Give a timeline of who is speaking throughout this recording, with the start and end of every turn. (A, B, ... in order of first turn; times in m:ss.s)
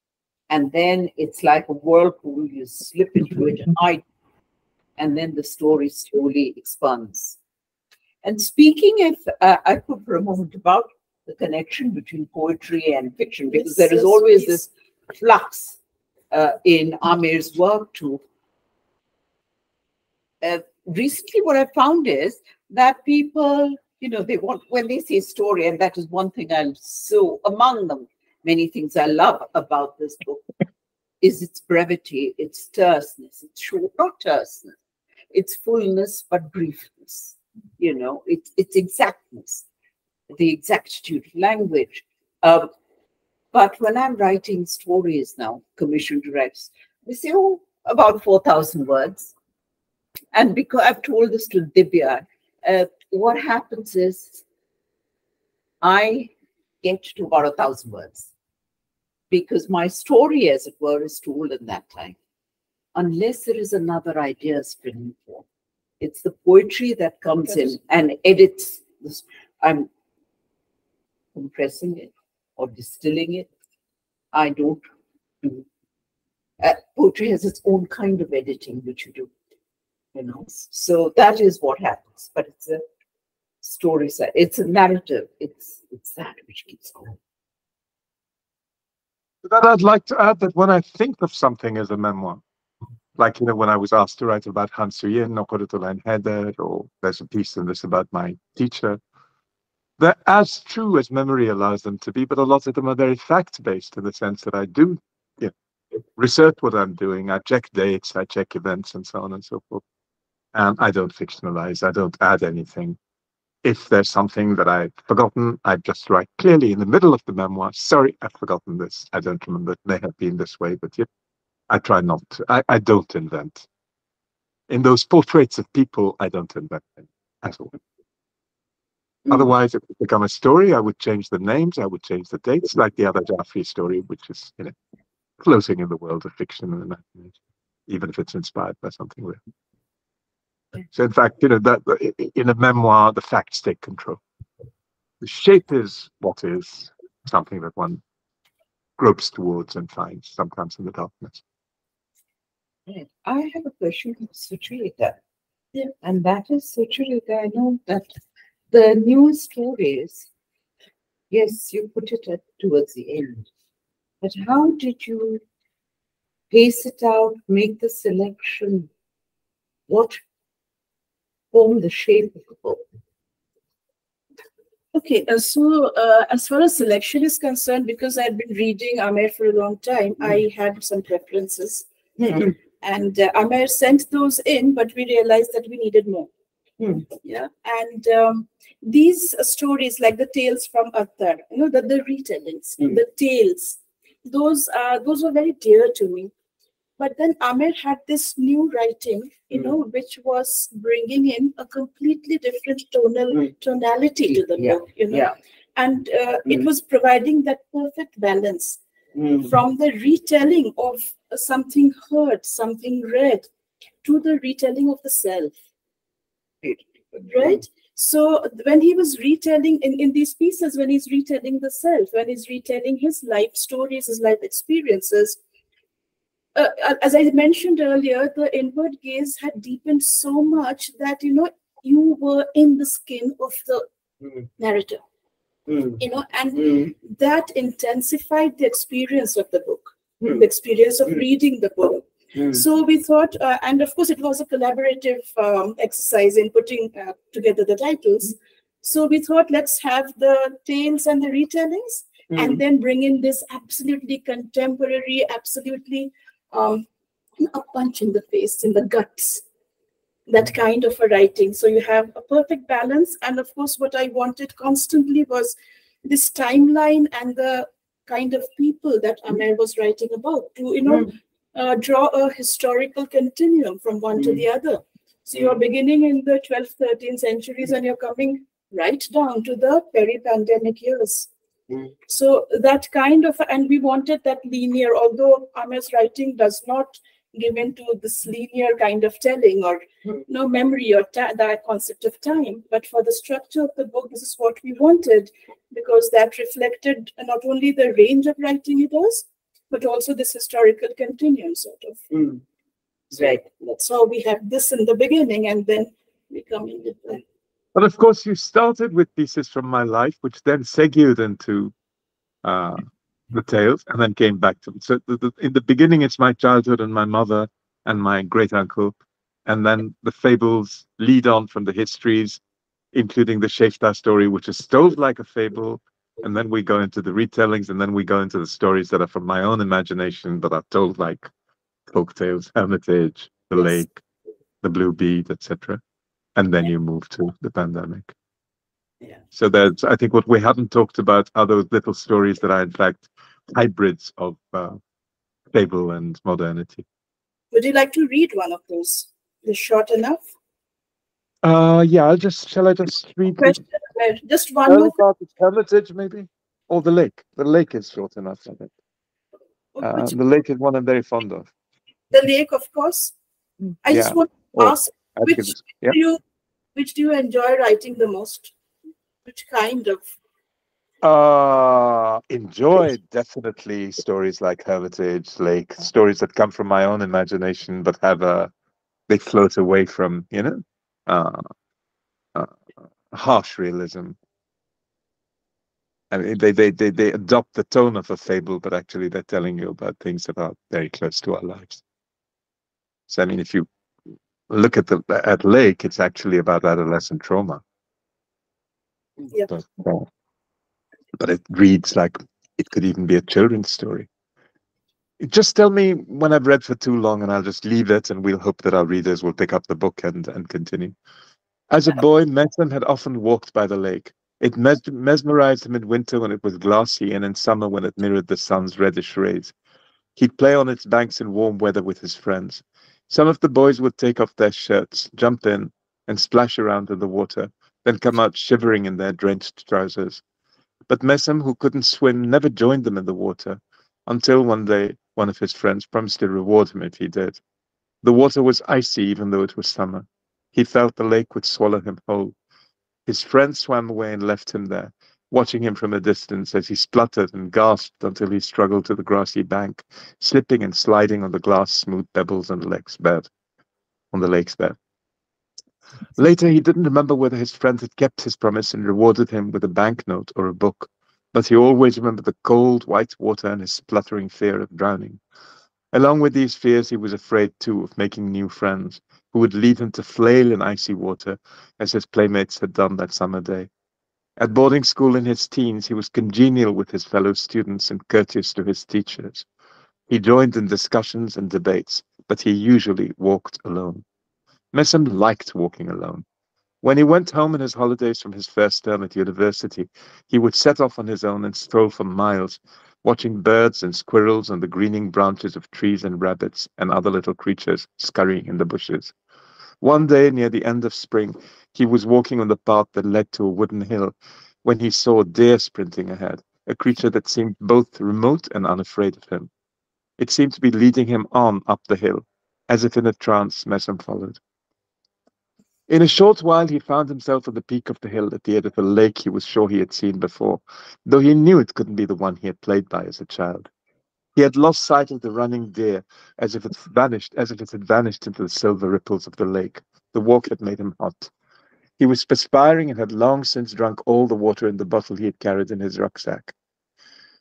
0:00.5-0:04.0 A
0:05.0-0:07.4 A
0:08.2-0:15.8 A
0:13.5-0:14.6 B
0:16.3-0:18.2 A
0:20.4-0:30.5 A
0:31.2-0:34.8 A
0:35.3-0:39.6 A
0:40.3-0:42.7 A
0:43.5-0:49.3 A
0:50.3-0:54.4 A
0:55.8-0:56.3 A
0:56.8-0:58.3 A
0:59.3-1:02.2 A
1:03.0-1:05.4 A
1:06.0-1:09.9 A
1:11.4-1:13.5 A
1:14.3-1:14.9 A
1:16.6-1:19.3 A
1:20.2-1:22.8 A
1:23.6-1:27.2 A
1:29.4-1:32.4 C
1:33.2-1:39.0 C
1:40.0-1:45.5 C
1:46.2-1:49.8 C
1:50.5-1:53.0 C
1:53.6-2:01.1 C
2:01.7-2:03.7 C
2:04.7-2:07.8 C
2:09.3-2:14.7 C
2:15.4-2:17.4 C
2:17.9-2:19.4 C
2:20.9-2:24.2 C
2:25.2-2:28.0 C
2:29.0-2:31.4 C
2:32.9-2:35.2 A
2:36.0-2:38.1 A
2:38.7-2:40.3 A
2:41.3-2:43.5 A
2:44.2-2:45.4 A
2:46.5-2:48.9 A
2:49.9-2:50.2 A
2:51.5-2:52.8 A
2:54.9-3:01.9 B
3:02.2-3:02.5 A
3:02.8-3:06.3 B
3:06.8-3:07.0 A
3:07.2-3:16.3 B
3:17.0-3:25.2 B
3:24.3-3:25.4 A
3:25.8-3:28.8 B
3:29.2-3:29.6 A
3:29.5-3:33.5 B
3:34.0-3:35.5 B
3:36.6-3:37.6 A
3:37.3-3:45.4 B
3:46.6-3:53.9 B
3:54.6-3:55.0 B
3:55.7-3:56.0 A
3:56.0-4:16.8 B
3:56.6-3:56.9 A
4:02.4-4:02.6 A
4:12.3-4:12.6 A
4:17.4-4:19.4 B
4:20.3-4:41.3 B
4:42.1-5:02.0 B
5:02.1-5:02.4 A
5:03.1-5:03.4 A
5:03.6-5:07.2 B
5:07.8-5:11.7 C
5:12.4-5:19.0 C
5:19.5-5:22.4 C
5:22.9-5:31.3 C
5:31.9-5:34.0 C
5:34.6-5:35.8 C
5:36.4-5:38.1 C
5:39.3-5:44.8 C
5:45.5-5:46.8 C
5:47.5-5:50.2 B
5:51.4-5:53.6 C
5:53.4-5:55.0 B
5:54.7-5:58.7 C
5:59.8-6:00.2 B
5:59.8-6:01.5 C
6:02.1-6:03.1 B
6:03.8-6:06.2 B
6:03.9-6:06.0 C
6:06.8-6:08.5 B
6:09.3-6:10.1 B
6:11.0-6:18.5 C
6:19.1-6:21.5 C
6:22.4-6:22.6 C
6:23.1-6:24.2 C
6:26.1-6:31.8 C
6:33.1-6:33.7 C
6:34.5-6:37.6 C
6:39.5-6:40.1 C
6:41.2-6:44.1 C
6:45.2-6:50.9 C
6:51.7-6:59.5 C
7:00.2-7:10.2 C
7:10.9-7:17.4 C
7:18.0-7:22.3 C
7:23.1-7:33.3 C
7:34.1-7:34.8 C
7:36.2-7:45.2 C
7:45.9-7:53.7 C
7:54.4-7:59.4 C
8:00.1-8:04.0 C
8:04.7-8:06.2 C
8:06.8-8:19.1 C
8:19.8-8:29.5 C
8:30.2-8:34.4 C
8:35.9-8:43.7 C
8:44.4-8:51.3 C
8:52.0-8:56.5 C